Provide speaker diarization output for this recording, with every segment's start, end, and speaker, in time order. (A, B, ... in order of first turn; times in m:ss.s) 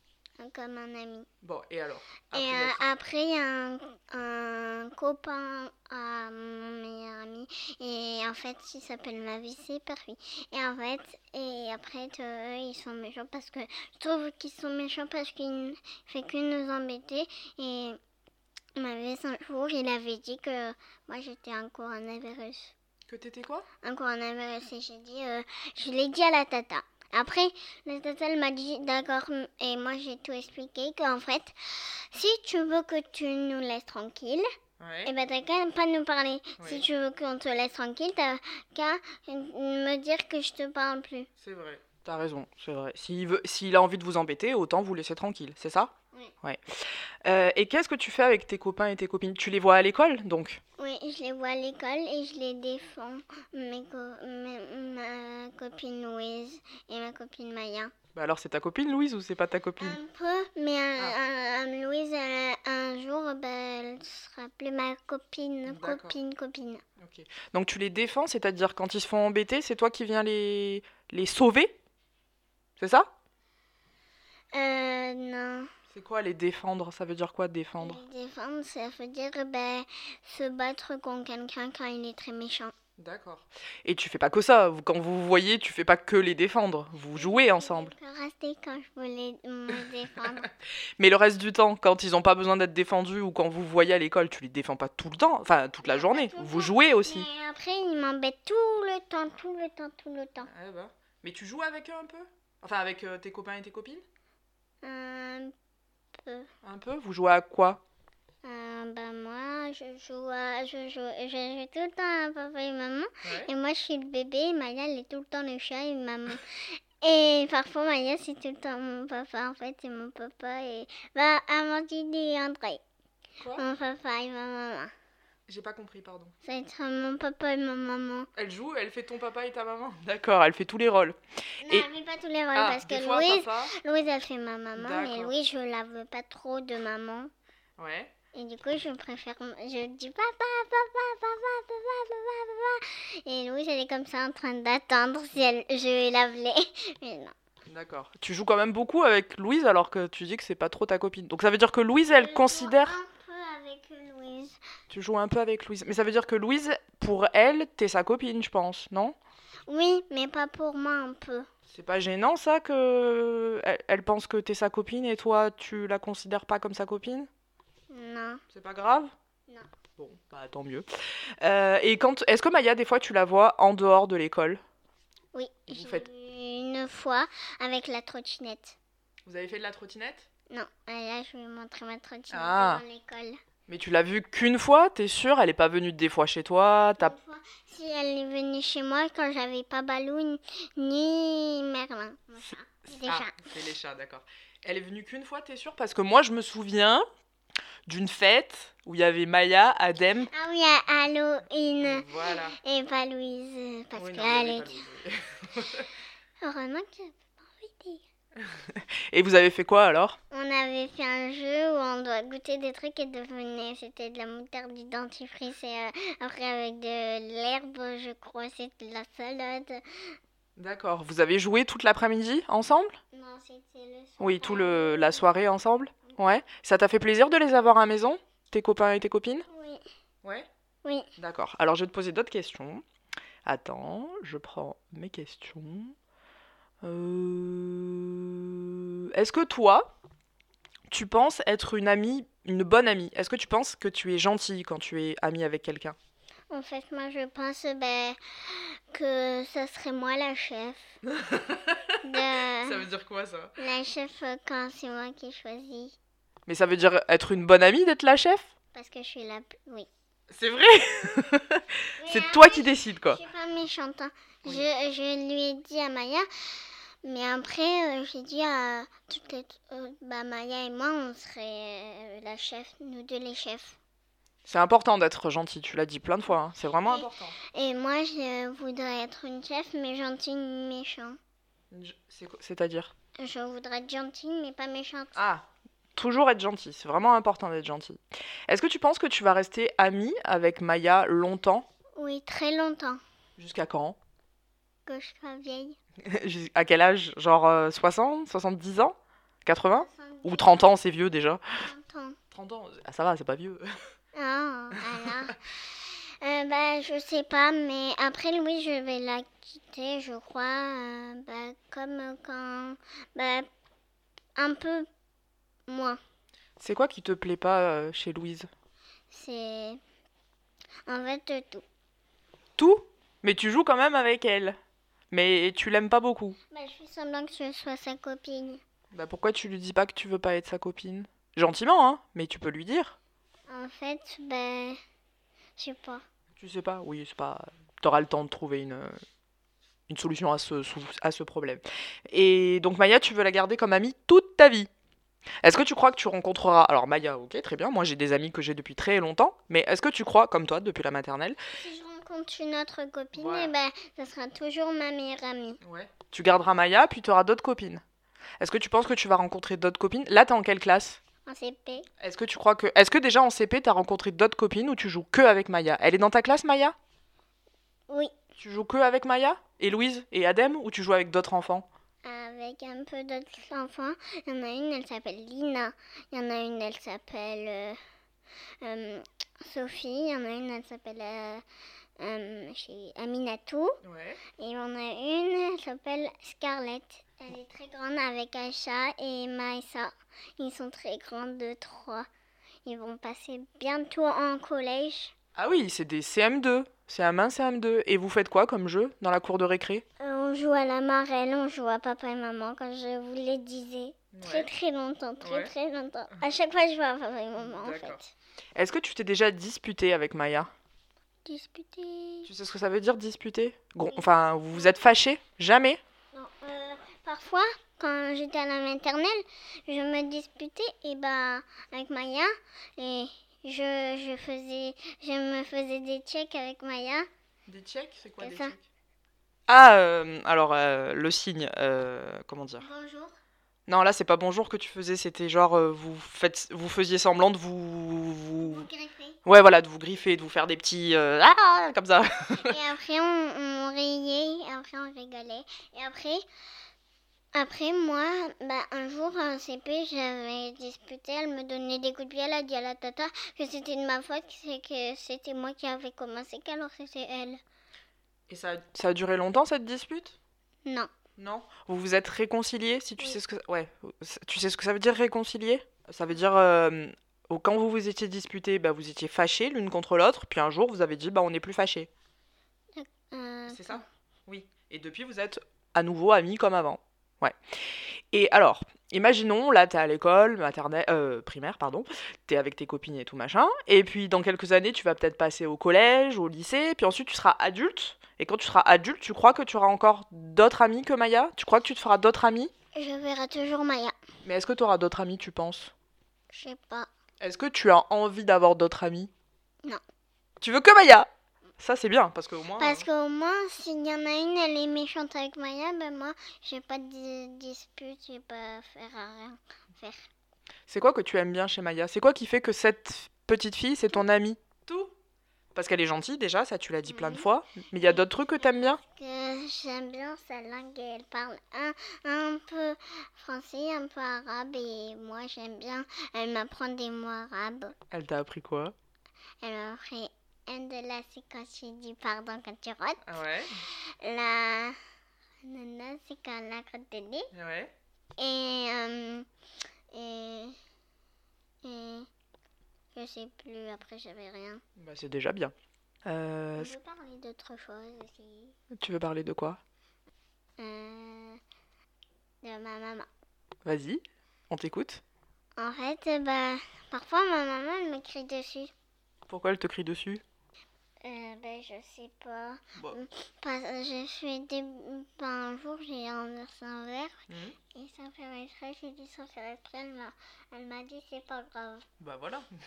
0:00.4-0:01.3 A
0:01.4-0:02.9 B
0:02.3-0:18.0 A
0:18.8-0:22.7 A
0:23.1-0:23.7 B
0:23.8-0:34.4 A
0:34.8-0:35.1 B
0:35.0-0:41.3 A
0:36.6-0:36.9 B
0:41.4-0:45.9 B
0:46.4-0:50.6 B
0:50.8-0:57.9 A
0:58.1-1:00.0 B
0:59.8-1:06.8 A
1:05.7-1:06.2 B
1:07.0-1:11.8 B
1:12.8-1:13.1 B
1:14.5-1:15.7 A
1:15.9-1:18.0 B
1:17.8-1:22.7 A
1:23.0-1:27.9 B
1:27.1-1:30.5 A
1:31.0-1:37.3 B
1:35.8-1:40.5 A
1:40.4-1:44.0 B
1:44.8-1:45.5 A
1:46.6-1:47.8 B
1:48.4-2:02.8 A
1:53.2-1:53.5 B
2:03.4-2:03.6 B
2:03.6-2:04.9 A
2:05.5-2:06.3 B
2:06.4-2:08.3 A
2:08.4-2:11.9 B
2:11.6-2:17.3 A
2:12.5-2:13.7 B
2:14.8-2:15.3 B
2:17.8-2:18.1 B
2:18.3-2:27.3 A
2:27.7-2:33.0 B
2:32.0-2:34.6 A
2:34.9-2:39.2 B
2:39.7-2:41.5 A
2:41.7-2:47.3 B
2:47.9-2:48.4 A
2:48.5-2:49.1 B
2:50.0-2:50.8 B
2:51.4-2:54.6 B
2:55.3-2:58.8 A
2:55.7-2:56.0 B
2:59.2-3:00.3 B
3:00.5-3:03.4 A
3:02.3-3:02.8 B
3:03.7-3:07.1 B
3:07.0-3:13.5 A
3:13.0-3:17.0 B
3:17.9-3:20.3 B
3:20.3-3:24.8 A
3:21.8-3:22.6 B
3:24.0-3:25.9 B
3:26.4-3:28.0 A
3:28.4-3:30.2 B
3:30.3-3:39.8 A
3:40.6-3:43.0 B
3:43.1-3:45.3 A
3:44.2-3:49.4 B
3:49.5-3:49.8 A
3:50.2-3:50.5 B
3:51.2-3:52.8 B
3:53.4-3:55.9 B
3:56.8-3:59.9 B
4:00.9-4:06.0 B
4:06.5-4:11.0 A
4:11.0-4:13.5 B
4:12.0-4:12.8 A
4:13.6-4:16.0 A
4:16.5-4:18.5 B
4:18.7-4:19.9 A
4:20.3-4:23.2 B
4:22.0-4:33.8 A
4:34.5-4:37.4 B
4:36.8-4:41.2 A
4:41.7-4:42.9 B
4:43.2-4:45.2 A
4:45.1-4:51.6 B
4:52.0-4:53.0 A
4:53.4-4:54.0 B
4:54.8-4:55.8 A
4:56.0-5:01.4 B
4:59.8-5:00.7 A
5:01.6-5:02.2 A
5:02.3-5:03.7 B
5:04.1-5:13.5 A
5:14.4-5:14.9 A
5:15.7-5:16.0 A
5:16.6-5:18.5 B
5:19.1-5:19.8 A
5:20.9-5:21.6 A
5:22.6-5:24.6 B
5:25.1-5:26.4 B
5:26.5-5:28.6 A
5:28.9-5:33.0 B
5:33.5-5:34.8 A
5:35.6-5:36.0 A
5:36.4-5:39.0 B
5:39.9-5:44.7 B
5:45.4-5:51.4 B
5:51.6-5:55.6 A
5:53.1-5:53.5 B
5:55.6-5:57.8 B
5:58.4-6:01.0 B
6:01.2-6:01.9 A
6:02.0-6:06.7 B
6:08.4-6:11.6 B
6:12.0-6:17.8 A
6:18.6-6:21.4 A
6:22.0-6:23.8 A
6:23.8-6:24.2 B
6:24.4-6:32.1 A
6:32.6-6:35.1 A
6:35.4-6:39.8 B
6:40.0-6:48.1 A
6:44.1-6:44.5 B
6:45.2-6:45.5 B
6:47.4-6:48.0 B
6:48.5-6:50.5 B
6:51.2-6:52.3 A
6:52.3-6:55.8 B
6:53.9-6:54.7 A
6:56.1-7:07.1 A
7:07.5-7:08.6 B
7:08.2-7:08.5 A
7:09.5-7:12.6 B
7:12.6-7:13.2 A
7:13.7-7:18.7 B
7:18.4-7:19.2 A
7:19.2-7:22.6 B
7:22.4-7:26.2 A
7:27.3-7:37.4 A
7:38.3-7:40.2 B
7:40.6-7:40.9 A
7:41.2-7:51.9 B
7:52.8-7:53.8 A
7:53.5-7:57.4 B
7:58.1-8:12.5 B
8:12.7-8:13.9 A
8:14.2-8:15.7 B
8:16.3-8:16.9 A
8:17.2-8:19.1 B
8:20.4-8:21.1 B
8:21.6-8:22.9 B
8:22.6-8:30.1 A
8:30.7-8:34.9 B
8:35.5-8:38.8 B
8:36.9-8:37.3 A
8:37.8-8:47.8 A
8:47.9-8:48.7 B
8:49.4-8:53.0 A
8:53.0-8:53.6 B
8:53.6-8:54.8 A
8:55.4-8:57.3 A
8:57.3-8:57.7 B
8:58.2-8:59.3 A
8:59.9-9:00.6 A
9:01.6-9:02.1 A
9:02.9-9:04.6 A
9:04.8-9:05.5 B
9:06.0-9:06.7 B
9:06.6-9:08.6 A
9:08.7-9:09.6 B
9:10.6-9:11.4 A
9:12.4-9:13.1 A
9:13.6-9:15.0 B
9:15.6-9:18.7 A
9:19.3-9:20.2 B
9:21.0-9:27.2 A
9:27.3-9:27.6 B
9:27.7-9:31.8 A
9:32.0-9:32.5 B